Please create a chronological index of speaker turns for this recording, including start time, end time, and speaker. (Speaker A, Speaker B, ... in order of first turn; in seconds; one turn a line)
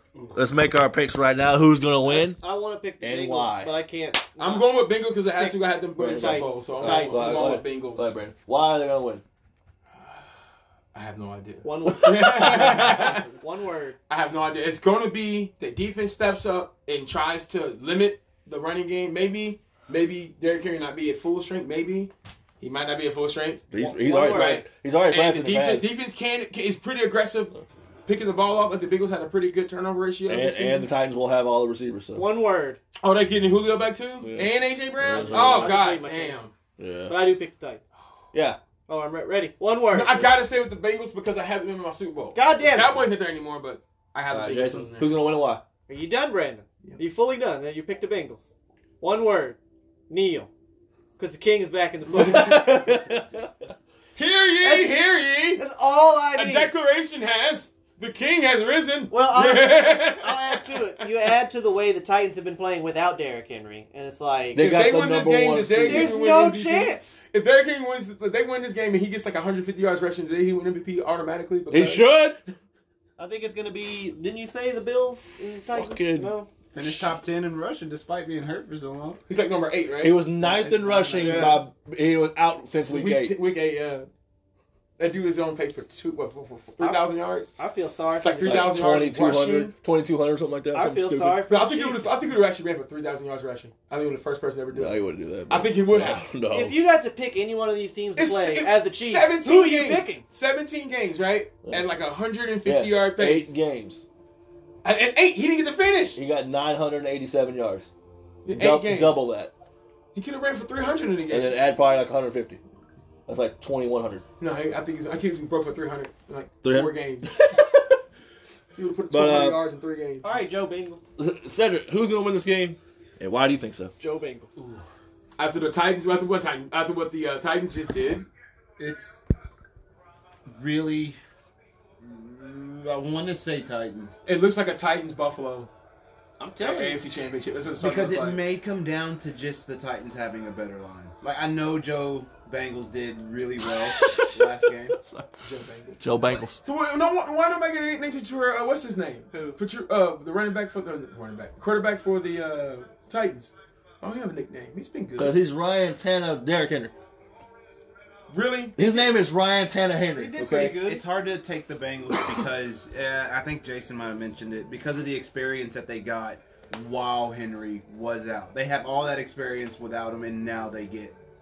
Speaker A: 0.3-2.4
Speaker B: 2.0-4.7
Speaker A: 3.0-3.7
Speaker C: 4.4-8.2
Speaker B: 5.3-7.5
Speaker A: 6.0-9.2
Speaker C: 10.9-13.3
Speaker B: 11.6-14.0
Speaker A: 12.0-13.2
Speaker C: 14.1-30.9
Speaker A: 23.7-25.9
Speaker B: 23.8-24.6
Speaker A: 30.3-32.2
Speaker B: 32.1-32.8
Speaker C: 33.0-36.5
Speaker A: 34.2-35.8
Speaker B: 35.2-36.4
Speaker A: 36.8-37.2
Speaker B: 37.1-37.8
Speaker A: 38.3-38.6
Speaker B: 38.9-40.3
Speaker C: 39.9-45.2
Speaker B: 42.4-43.0
Speaker A: 44.3-45.6
Speaker B: 45.9-49.6
Speaker B: 50.1-50.5
Speaker B: 51.2-53.1
Speaker A: 52.1-53.5
Speaker C: 54.2-55.6
Speaker B: 54.6-55.0
Speaker B: 55.6-56.7
Speaker C: 56.4-60.8
Speaker B: 59.1-64.7
Speaker A: 64.5-66.1
Speaker C: 64.6-72.1
Speaker B: 65.8-67.2
Speaker A: 71.7-72.4
Speaker B: 73.2-76.5
Speaker A: 75.7-76.3
Speaker D: 76.7-79.2
Speaker C: 79.3-80.3
Speaker A: 80.0-83.4
Speaker B: 80.5-81.6
Speaker C: 81.1-81.7
Speaker C: 82.9-84.1
Speaker C: 85.0-87.6
Speaker B: 86.8-88.8
Speaker C: 88.2-89.7
Speaker A: 88.4-91.4
Speaker B: 90.7-92.2
Speaker C: 91.5-96.3
Speaker A: 94.7-96.8
Speaker B: 96.5-100.2
Speaker C: 98.2-103.5
Speaker A: 102.7-104.0
Speaker C: 104.8-106.2
Speaker A: 106.2-107.9
Speaker C: 108.5-109.2
Speaker A: 108.5-109.5
Speaker C: 110.1-111.6
Speaker A: 111.3-112.6
Speaker A: 113.3-114.2
Speaker C: 114.4-117.3
Speaker A: 116.6-118.0
Speaker C: 118.8-120.3
Speaker A: 119.1-119.6
Speaker B: 120.2-121.0
Speaker A: 121.2-123.9
Speaker B: 124.0-124.5
Speaker C: 125.4-128.3
Speaker D: 128.8-129.2
Speaker D: 130.5-131.2
Speaker D: 132.0-134.2
Speaker C: 134.2-135.7
Speaker B: 136.4-137.0
Speaker C: 136.6-138.5
Speaker D: 137.8-145.0
Speaker A: 143.7-145.4
Speaker C: 145.4-146.0
Speaker A: 146.0-146.6
Speaker C: 146.6-155.4
Speaker B: 149.3-149.6
Speaker A: 155.2-156.9
Speaker C: 158.3-158.8
Speaker A: 158.8-160.8
Speaker B: 160.1-161.0
Speaker D: 160.8-171.2